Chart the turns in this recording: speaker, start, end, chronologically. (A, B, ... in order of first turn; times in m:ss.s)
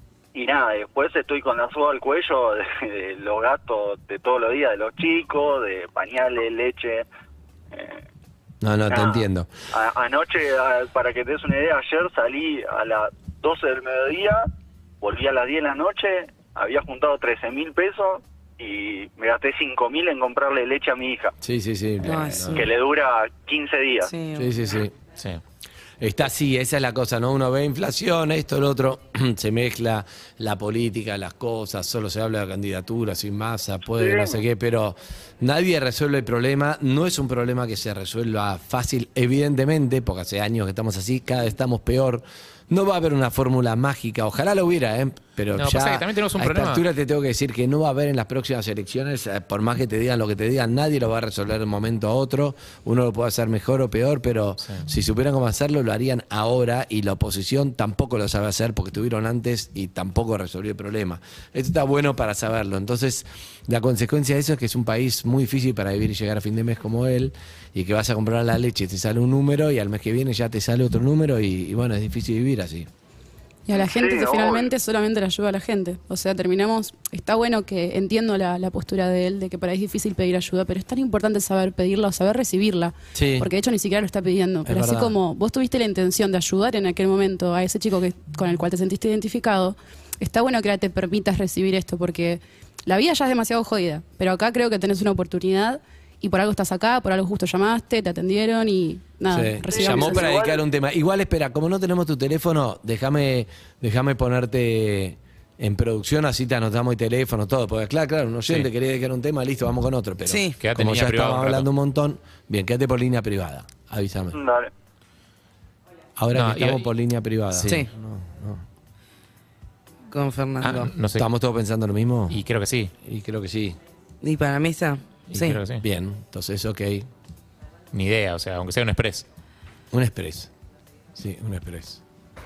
0:00.3-0:07.0 A
0:07.7-0:08.0 A
0:08.6-0:09.5 B
0:08.9-0:14.4 A
0:15.0-0:21.3 A
0:21.4-0:22.6 B
0:22.0-0:22.6 C
0:22.5-0:24.1 A
0:24.0-0:24.6 C
0:24.4-0:24.9 B
0:25.2-0:25.4 D
0:26.0-1:12.9 B
0:33.9-0:34.4 A
0:45.5-0:46.8 D
1:13.6-1:40.3 E
1:13.8-1:14.7 A
1:23.1-1:23.5 B
1:24.6-1:25.2 B
1:39.3-1:54.4 B
1:39.7-1:40.6 A
1:50.2-1:50.6 C
1:50.6-1:51.7 D
1:54.3-1:54.7 A
1:56.2-1:58.6 B
1:56.3-1:56.9 D
1:57.5-1:57.9 C
2:00.1-2:00.9 C
2:00.6-2:01.2 D
2:01.1-2:02.4 B
2:02.3-2:02.9 D
2:03.0-2:03.8 B
2:04.2-2:05.6 C
2:05.3-2:05.8 D
2:05.7-2:07.0 B
2:07.9-2:09.2 D
2:09.9-2:10.5 B
2:11.2-2:12.0 B